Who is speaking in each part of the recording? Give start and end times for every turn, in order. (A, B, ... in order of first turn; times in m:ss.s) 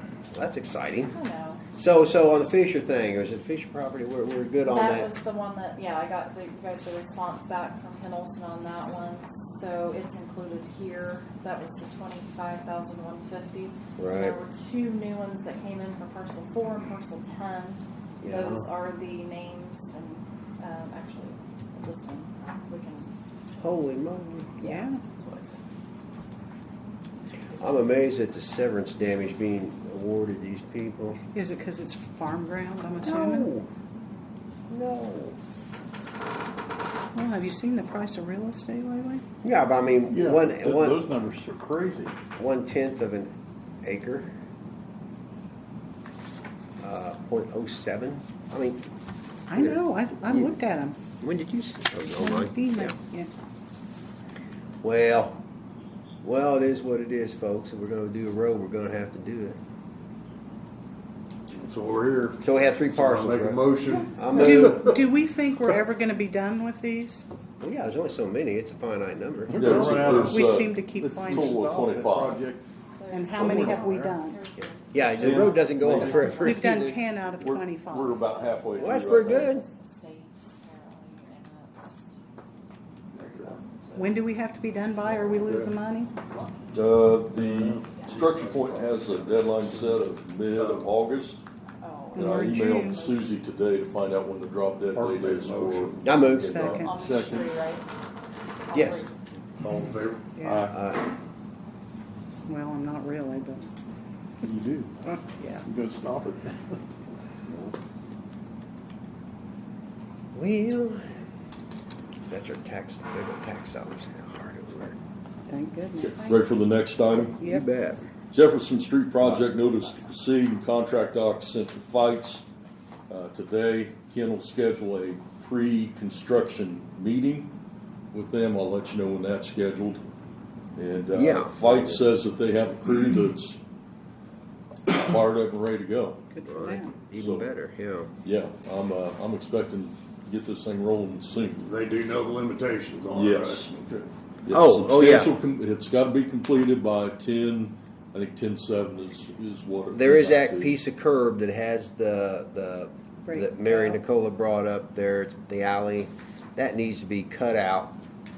0:00.3-0:01.2 A
0:01.1-0:01.6 B
0:01.7-0:05.1 A
0:04.7-0:23.1 B
0:14.0-0:14.4 A
0:18.2-0:18.7 A
0:23.6-0:24.7 A
0:24.6-0:25.6 B
0:24.6-0:25.0 C
0:27.6-0:31.2 A
0:31.4-0:33.5 C
0:33.0-0:33.7 A
0:34.7-0:35.4 A
0:37.2-0:39.2 C
0:39.4-0:41.2 A
0:40.2-0:42.1 D
0:41.2-0:42.0 E
0:42.4-0:43.3 A
0:43.8-0:44.3 A
0:46.8-0:48.9 A
0:49.5-0:51.0 C
0:49.5-0:50.6 A
0:51.2-0:53.0 A
0:52.1-0:53.3 C
0:54.8-0:55.4 A
0:56.2-0:59.6 A
1:01.5-1:05.1 E
1:02.4-1:04.8 A
1:04.0-1:07.2 C
1:07.6-1:10.3 A
1:09.5-1:12.6 E
1:09.5-1:12.4 F
1:10.3-1:11.6 C
1:13.0-1:16.8 B
1:13.1-1:14.4 C
1:13.4-1:14.1 D
1:14.8-1:17.0 A
1:15.8-1:16.3 D
1:16.3-1:18.3 C
1:17.4-1:19.6 F
1:18.3-1:22.2 B
1:18.8-1:19.7 A
1:23.1-1:24.2 B
1:24.0-1:26.1 C
1:25.1-1:25.7 E
1:26.7-1:31.4 F
1:27.3-1:29.9 E
1:30.6-1:30.9 E
1:31.8-1:33.4 B
1:32.1-1:33.1 C
1:32.2-1:37.4 F
1:34.9-1:37.3 E
1:36.0-1:36.7 A
1:36.3-1:37.1 C
1:36.6-1:37.9 B
1:38.6-1:39.1 B
1:38.7-1:39.1 A
1:39.6-1:40.8 E
1:40.4-1:40.7 C
1:40.7-1:41.1 A
1:42.5-1:43.7 C
1:44.5-1:44.8 D
1:45.1-1:45.7 C
1:45.7-1:46.5 D
1:50.3-1:51.1 A
1:52.3-1:55.0 A
1:55.5-1:56.4 C
1:56.0-1:57.4 F
1:57.4-1:58.1 A
1:58.3-2:02.5 F
2:03.1-2:07.5 F
2:08.1-2:10.0 F
2:10.8-2:13.6 F
2:11.1-2:12.0 A
2:14.9-2:16.3 F
2:16.3-2:16.9 C
2:16.4-2:18.1 A
2:17.1-2:17.5 F
2:18.2-2:21.7 F
2:21.6-2:24.1 E
2:23.1-2:23.7 F
2:24.4-2:30.7 F
2:24.5-2:25.4 A
2:29.9-2:38.0 A
2:33.3-2:34.0 C